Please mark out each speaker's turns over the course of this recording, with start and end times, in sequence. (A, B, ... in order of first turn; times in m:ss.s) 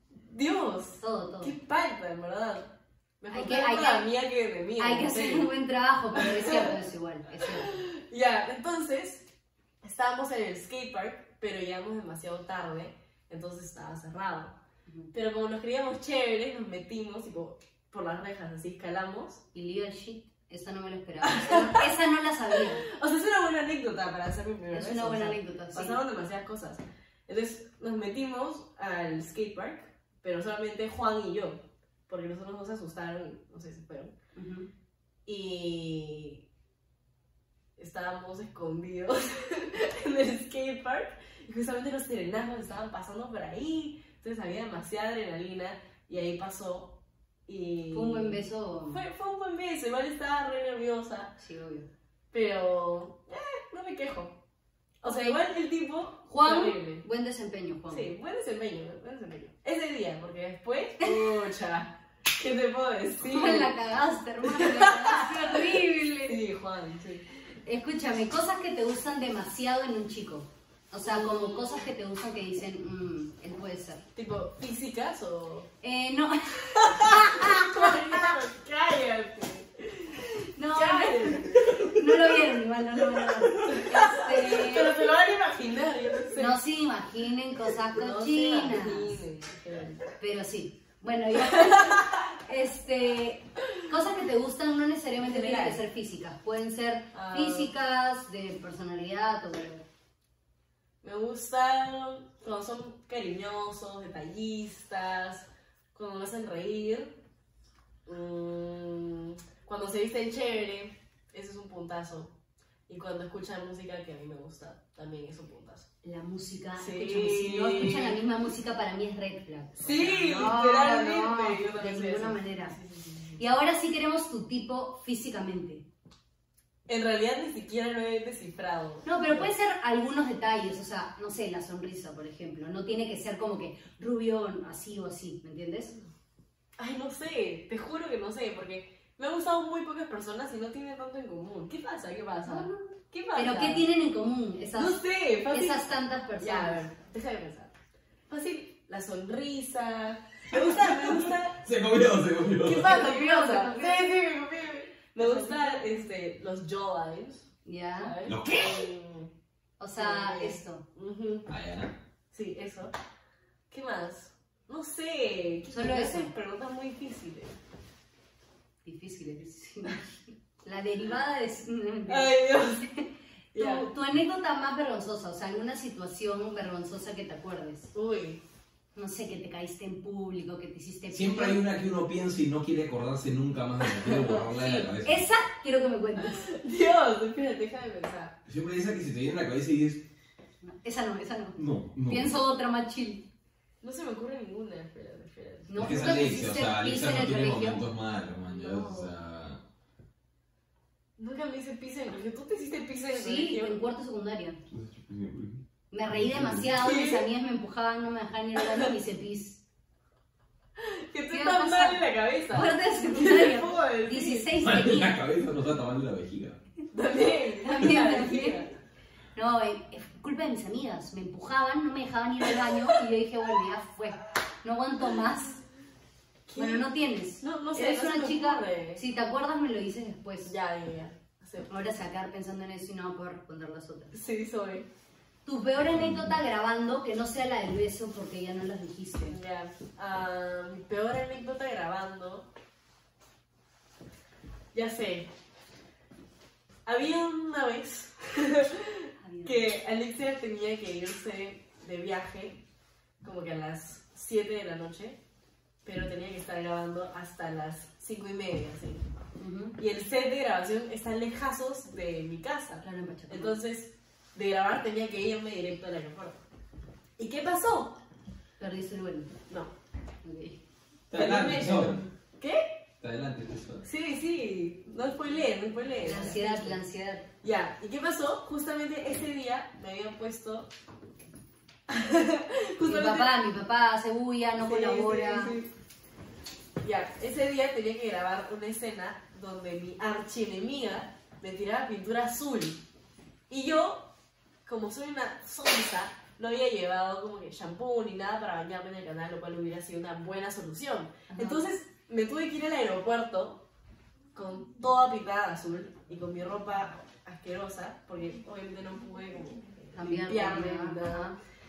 0:00.2-0:05.5 A
0:01.0-0:01.5 B
0:03.3-0:04.1 B
0:04.8-0:07.8 B
0:06.1-0:06.7 A
0:07.4-0:09.2 A
0:09.8-0:14.5 A
0:14.9-0:15.1 B
0:15.1-0:19.4 A
0:19.5-0:22.8 B
0:21.2-0:21.8 A
0:22.6-0:34.1 A
0:24.7-0:26.0 B
0:34.4-0:34.7 B
0:35.2-0:36.4 A
0:37.8-0:46.9 A
0:47.5-0:51.3 A
0:47.9-0:49.0 B
0:51.4-0:51.9 B
0:52.3-0:54.4 A
0:55.0-0:57.0 A
0:55.0-0:55.4 B
0:56.3-0:58.1 B
0:57.9-1:03.7 A
1:03.2-1:06.4 B
1:04.4-1:07.2 A
1:07.6-1:14.0 B
1:11.0-1:11.9 A
1:14.2-1:15.7 A
1:15.8-1:18.4 B
1:16.6-1:21.8 A
1:20.5-1:24.9 B
1:23.6-1:26.6 A
1:26.4-1:29.2 B
1:27.9-1:30.1 A
1:30.2-1:39.8 B
1:31.4-1:32.1 A
1:35.2-1:35.8 A
1:37.1-1:37.7 A
1:41.0-1:47.1 A
1:48.0-1:52.3 A
1:52.9-1:55.9 A
1:56.0-2:02.8 B
1:56.8-1:58.2 A
1:59.8-2:03.5 A
2:03.4-2:05.8 B
2:06.9-2:09.5 A
2:09.0-2:15.9 B
2:16.8-2:23.9 A
2:22.4-2:26.8 B
2:24.8-2:27.7 A
2:28.3-2:31.6 A
2:30.5-2:32.9 C
2:32.6-2:37.5 A
2:32.8-2:34.1 B
2:35.2-2:35.9 B
2:37.6-2:38.1 B
2:38.0-2:39.3 A
2:38.2-2:38.9 C
2:39.8-2:40.8 B
2:40.0-2:41.5 A
2:41.5-2:41.9 C
2:42.3-2:42.9 A
2:43.7-2:47.6 A
2:45.7-2:46.3 B
2:48.8-2:57.9 B
2:52.1-2:52.9 A
2:53.5-2:53.9 A
2:57.9-2:58.4 A
2:58.9-3:01.6 B
3:01.1-3:05.2 C
3:03.8-3:04.8 A
3:04.6-3:06.4 B
3:06.2-3:08.4 A
3:08.5-3:10.0 C
3:10.6-3:13.2 B
3:11.6-3:12.3 C
3:13.8-3:15.8 A
3:15.7-3:17.8 B
3:15.8-3:19.6 C
3:18.5-3:19.1 A
3:21.2-3:23.8 A
3:23.1-3:24.6 B
3:24.7-3:26.7 C
3:25.9-3:29.6 B
3:26.8-3:27.2 A
3:30.8-3:34.5 A
3:31.3-3:32.0 B
3:32.5-3:35.2 B
3:34.6-3:36.6 C
3:36.9-3:38.7 A
3:37.6-3:38.6 B
3:39.4-3:45.6 B
3:46.5-3:46.8 A
3:46.6-3:50.5 B
3:47.4-3:49.0 A
3:50.4-3:51.7 A
3:51.7-3:54.1 B
3:54.1-3:54.9 A
3:55.5-3:59.4 B
3:59.2-4:02.5 A
4:04.7-4:05.3 A
4:06.9-4:12.6 A
4:09.2-4:09.7 B
4:13.2-4:15.2 A
4:15.8-4:19.0 A
4:19.4-4:19.8 B
4:19.8-4:26.4 A
4:22.8-4:23.6 B
4:27.2-4:27.9 A
4:28.6-4:29.3 B
4:30.2-4:30.6 B
4:31.1-4:32.0 C
4:31.1-4:32.7 A
4:33.0-4:33.8 C
4:33.8-4:36.8 A
4:36.0-4:37.2 B
4:37.4-4:40.7 A
4:41.9-4:43.3 A
4:42.8-4:45.6 B
4:44.6-4:45.7 A
4:46.8-4:52.8 A
4:53.5-4:54.1 A
4:54.6-5:03.6 A
5:01.3-5:01.7 B
5:04.4-5:11.3 A
5:09.9-5:11.4 B